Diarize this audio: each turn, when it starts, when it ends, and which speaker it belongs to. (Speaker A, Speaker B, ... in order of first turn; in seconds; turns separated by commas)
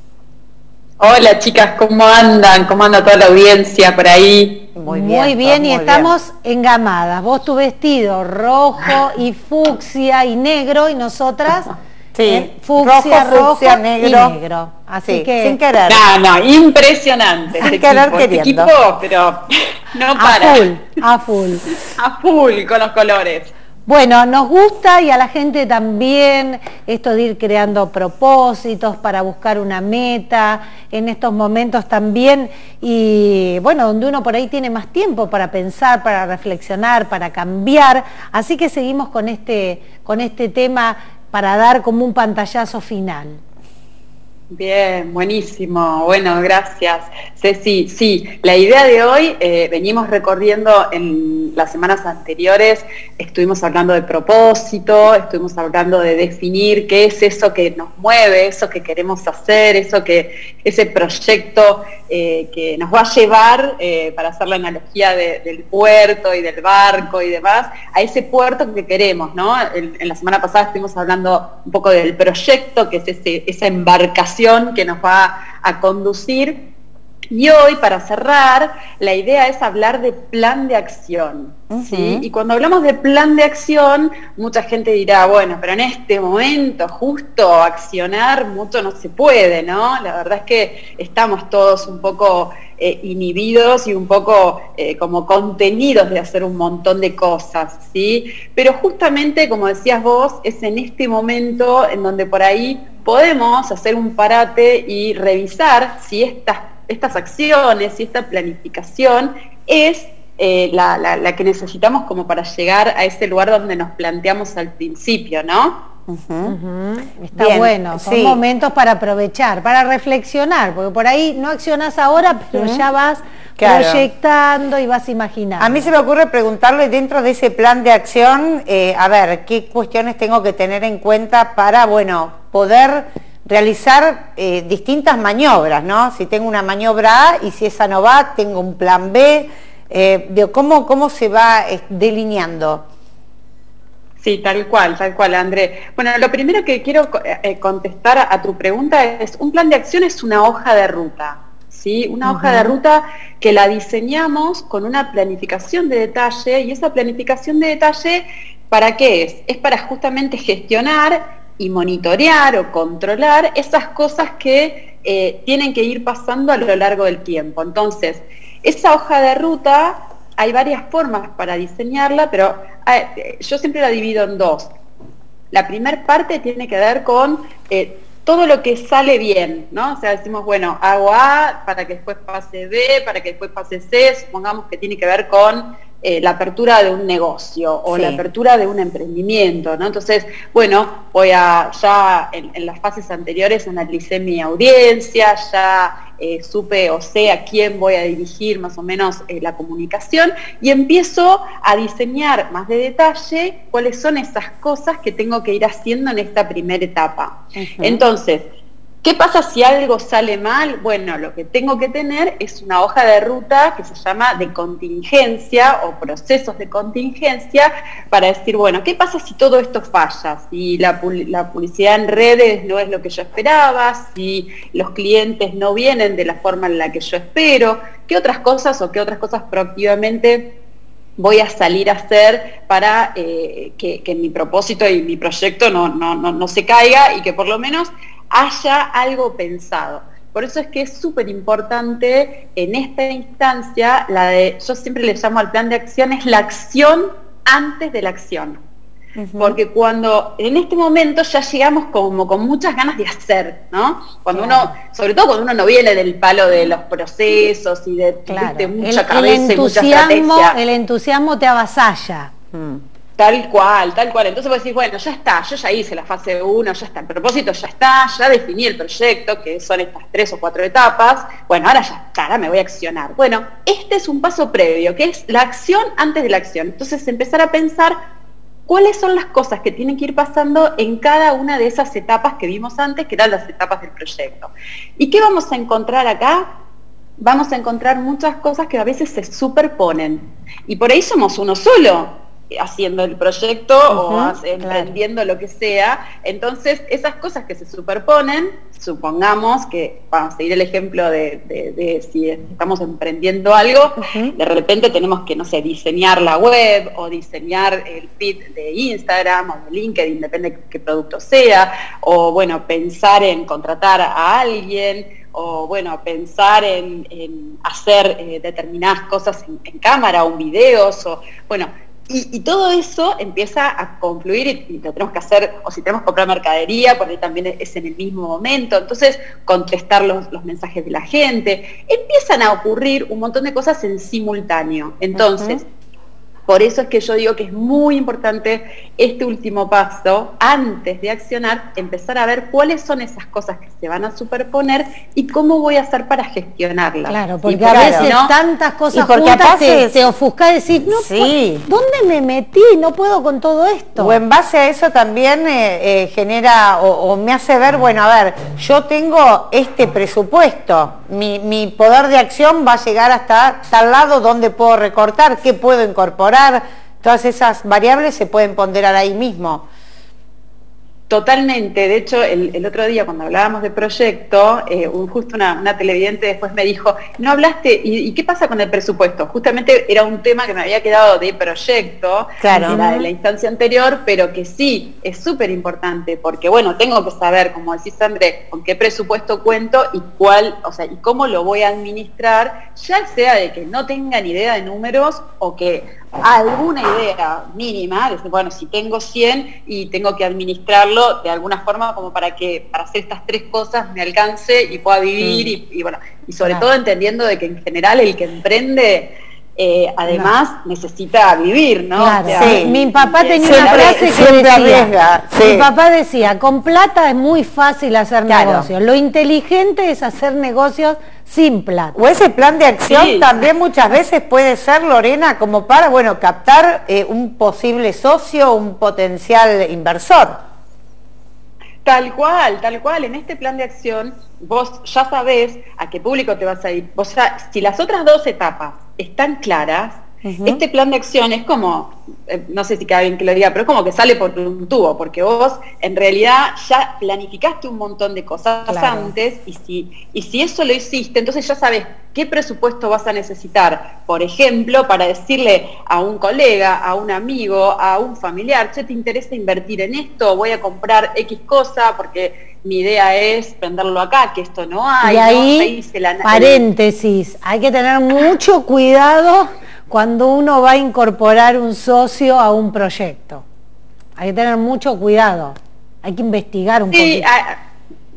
Speaker A: 1.0-4.6, Speaker B: 4.7-6.1, Speaker C: 4.9-11.7, Speaker B: 12.1-14.4, Speaker C: 12.2-15.6, Speaker B: 15.1-16.0, Speaker A: 15.8-20.7, Speaker B: 17.6-18.7, Speaker C: 20.1-21.6, Speaker A: 21.9-23.5, Speaker C: 23.9-43.4, Speaker A: 44.5-76.6, Speaker A: 77.3-115.8, Speaker B: 81.7-82.2, Speaker B: 116.1-116.5, Speaker C: 116.4-125.9, Speaker B: 117.3-118.4, Speaker B: 122.5-122.9, Speaker B: 123.6-124.1, Speaker B: 125.6-142.8, Speaker A: 144.2-174.7, Speaker B: 152.2-152.7, Speaker A: 175.5-208.4, Speaker B: 187.9-188.2, Speaker B: 207.5-208.0, Speaker A: 209.0-230.5, Speaker A: 231.2-248.6, Speaker B: 249.2-249.6, Speaker A: 249.4-260.6, Speaker C: 254.3-254.7, Speaker C: 258.3-262.3, Speaker B: 262.5-262.8, Speaker A: 263.2-277.9, Speaker A: 278.7-286.5, Speaker A: 287.2-335.6, Speaker B: 293.9-294.8, Speaker C: 294.6-294.9, Speaker B: 304.0-304.3, Speaker B: 335.1-335.6, Speaker A: 336.5-348.3, Speaker C: 347.1-354.2, Speaker B: 347.6-348.1, Speaker B: 348.9-350.1, Speaker B: 350.9-351.6, Speaker B: 353.9-369.6, Speaker A: 371.1-414.2, Speaker B: 382.4-382.8, Speaker C: 382.5-383.0, Speaker B: 405.2-405.5, Speaker C: 406.4-406.7, Speaker C: 410.1-410.3, Speaker C: 411.9-422.0, Speaker B: 412.3-412.8, Speaker B: 413.4-415.7, Speaker B: 418.3-418.7, Speaker B: 421.9-430.4, Speaker A: 422.9-423.4, Speaker A: 431.8-466.6, Speaker B: 440.2-440.6, Speaker C: 448.7-449.1, Speaker C: 465.0-465.7, Speaker C: 466.2-473.4, Speaker C: 474.2-477.2, Speaker A: 476.9-477.6